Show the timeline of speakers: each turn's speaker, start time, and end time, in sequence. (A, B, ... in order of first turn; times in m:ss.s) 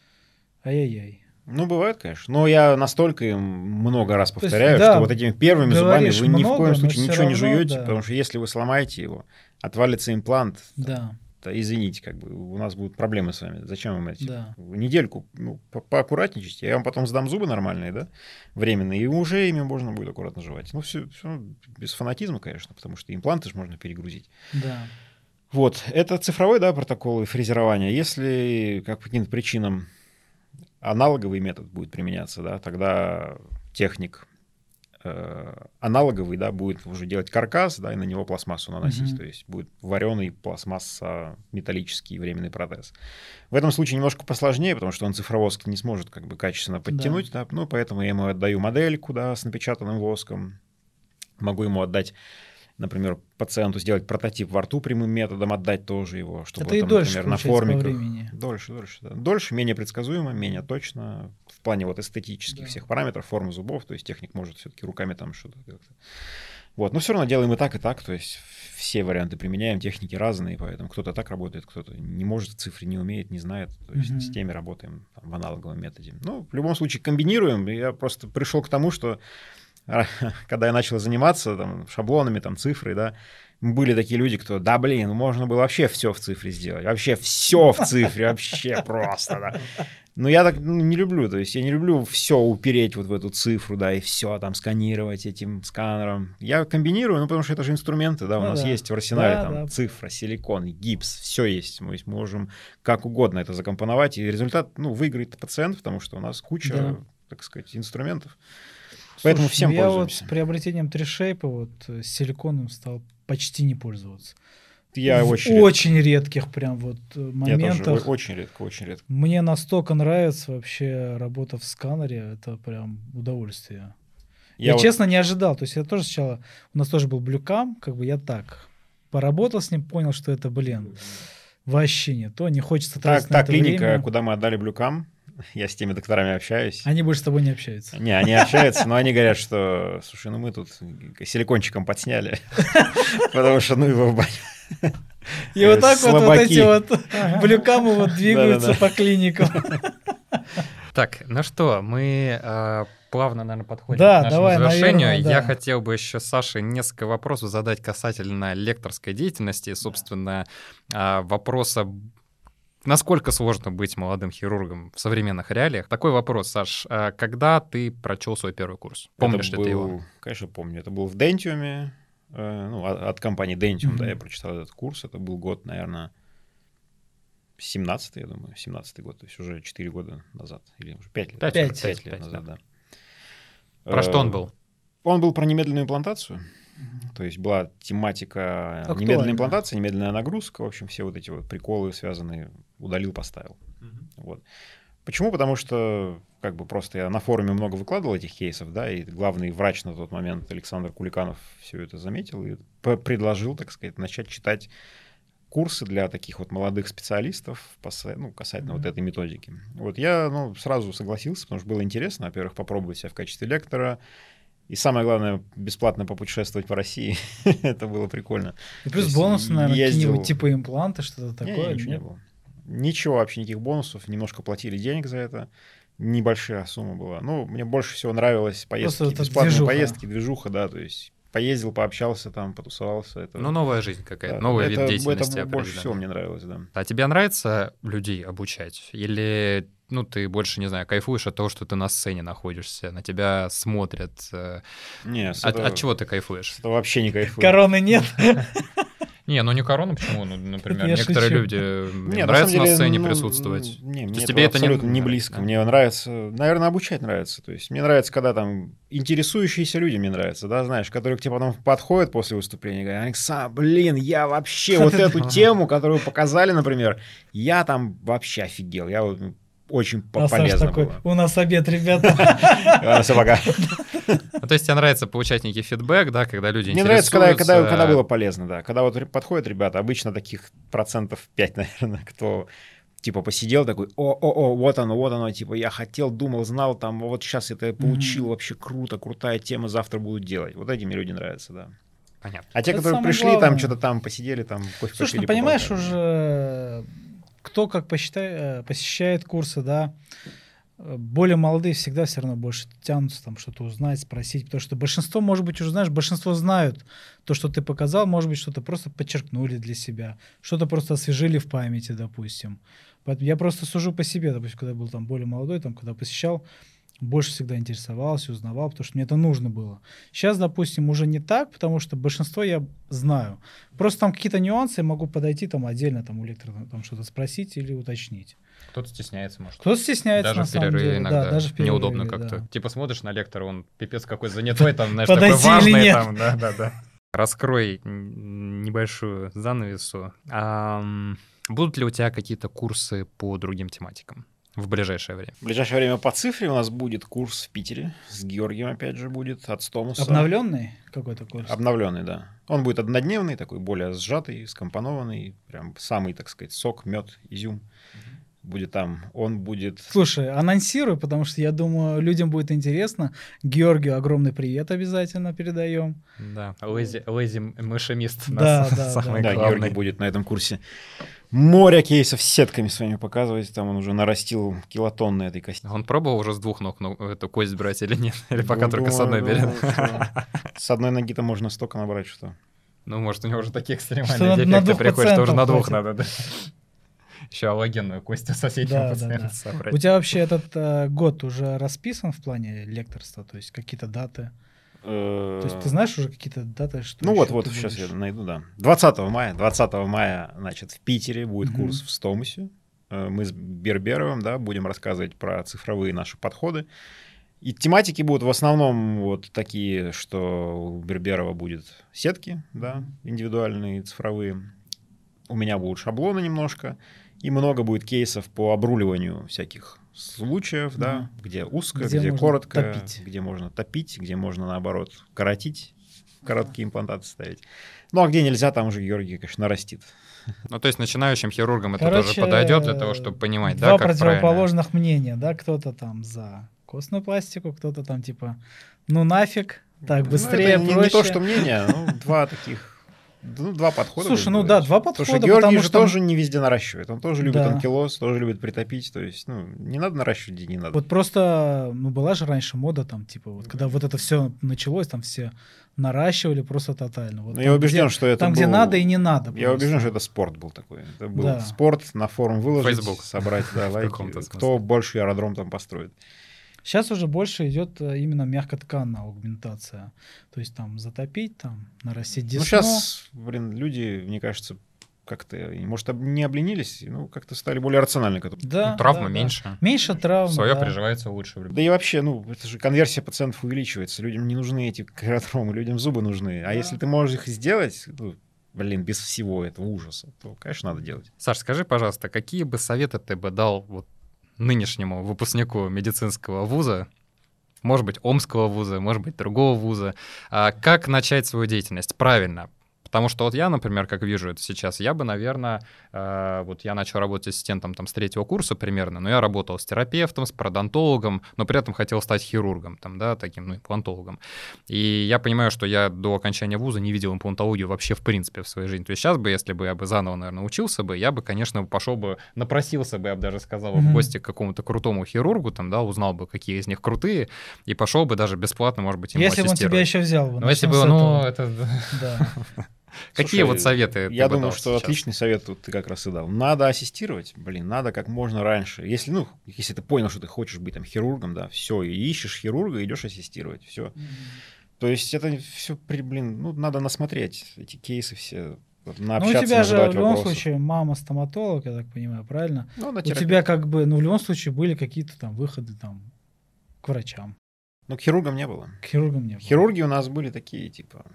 0:00.6-0:01.2 A
0:01.5-0:24.3 B
0:04.4-0:08.0 A
0:10.8-0:11.2 A
0:14.2-0:14.6 A
0:24.5-0:24.9 A
0:25.5-0:29.9 B
0:30.8-0:34.3 B
0:35.0-0:42.9 B
0:38.8-0:39.2 A
0:43.5-0:50.6 B
0:46.9-0:47.2 A
0:51.4-0:52.1 B
0:52.8-1:05.9 B
0:56.6-0:58.3 A
1:02.5-1:02.8 A
1:06.8-1:19.2 B
1:14.0-1:14.4 A
1:19.9-1:48.4 B
1:38.4-1:39.7 A
1:46.6-1:47.0 A
1:49.2-1:54.4 A
1:49.2-1:50.3 B
1:54.9-1:55.9 B
1:55.1-1:58.1 A
1:57.4-1:59.0 B
1:59.1-2:04.0 A
2:04.6-2:04.9 B
2:04.6-2:11.0 A
2:11.7-2:14.1 A
2:13.0-2:16.9 B
2:16.8-2:18.8 A
2:17.9-2:29.8 B
2:22.7-2:23.1 A
2:25.6-2:29.9 A
2:30.9-2:42.1 C
2:33.9-2:35.6 A
2:42.8-2:49.9 C
2:49.2-2:56.1 B
2:53.8-2:54.2 A
2:57.6-3:02.6 B
3:01.4-3:02.4 C
3:01.5-3:02.0 A
3:03.9-3:04.4 B
3:03.9-3:04.5 C
3:05.0-3:06.4 B
3:07.1-3:13.6 B
3:08.9-3:09.6 A
3:14.2-3:14.4 B
3:15.0-3:24.7 B
3:25.5-3:34.0 B
3:34.7-3:40.4 B
3:38.8-3:42.0 A
3:41.4-3:53.5 B
3:48.8-3:50.0 A
3:53.4-3:56.0 C
3:54.3-3:56.7 B
3:56.7-4:04.6 C
4:05.0-4:05.9 B
4:05.4-4:06.6 C
4:06.6-4:07.6 B
4:07.4-4:08.8 A
4:09.3-4:15.6 C
4:10.7-4:11.6 A
4:12.1-4:31.0 B
4:24.8-4:25.4 C
4:30.2-4:33.8 A
4:32.0-4:34.2 B
4:34.4-4:38.0 C
4:36.7-4:42.5 B
4:43.0-4:51.7 B
4:47.8-4:48.3 A
4:52.2-4:52.5 C
4:52.5-4:56.0 B
4:52.7-4:53.8 A
4:55.0-4:56.9 A
4:57.4-5:00.0 A
5:00.8-5:16.4 A
5:17.0-5:28.4 A
5:28.7-5:45.4 C
5:29.6-5:32.5 A
5:34.6-5:36.2 A
5:45.4-5:50.3 B
5:50.0-5:51.6 A
5:51.4-5:57.6 B
5:58.4-5:59.9 B
5:59.9-6:06.0 A
6:06.2-6:09.8 C
6:08.3-6:09.5 A
6:09.2-6:10.6 B
6:11.3-6:15.6 B
6:15.6-6:20.2 C
6:18.4-6:22.4 B
6:22.9-6:26.5 C
6:24.1-6:25.8 A
6:27.3-6:29.8 C
6:28.6-6:34.3 A
6:34.8-6:35.8 B
6:35.4-6:37.9 A
6:37.0-6:46.7 B
6:41.4-6:41.8 A
6:47.4-6:54.5 B
6:55.3-7:09.9 B
7:00.8-7:01.1 A
7:01.8-7:03.0 A
7:10.5-7:14.5 C
7:11.8-7:21.9 A
7:20.0-7:30.8 B
7:24.0-7:26.0 A
7:27.2-7:27.6 A
7:30.7-7:39.9 A
7:37.3-7:46.0 B
7:41.2-7:41.6 A
7:42.6-7:44.6 C
7:46.6-7:52.8 A
7:52.4-7:58.5 B
7:58.4-8:00.8 A
7:58.6-7:59.6 C
8:00.2-8:01.6 C
8:01.5-8:11.1 B
8:11.2-8:13.9 C
8:14.4-8:16.9 C
8:17.6-8:52.5 C
8:43.7-8:44.1 A
8:49.1-8:51.3 A
8:51.9-8:52.3 A
8:53.1-8:55.0 C
8:53.2-9:04.0 B
9:04.8-9:10.4 B
9:09.2-9:16.1 A
9:12.8-9:13.4 B
9:16.8-9:17.4 A
9:17.9-9:18.8 B
9:18.8-9:19.6 A
9:19.4-9:21.1 B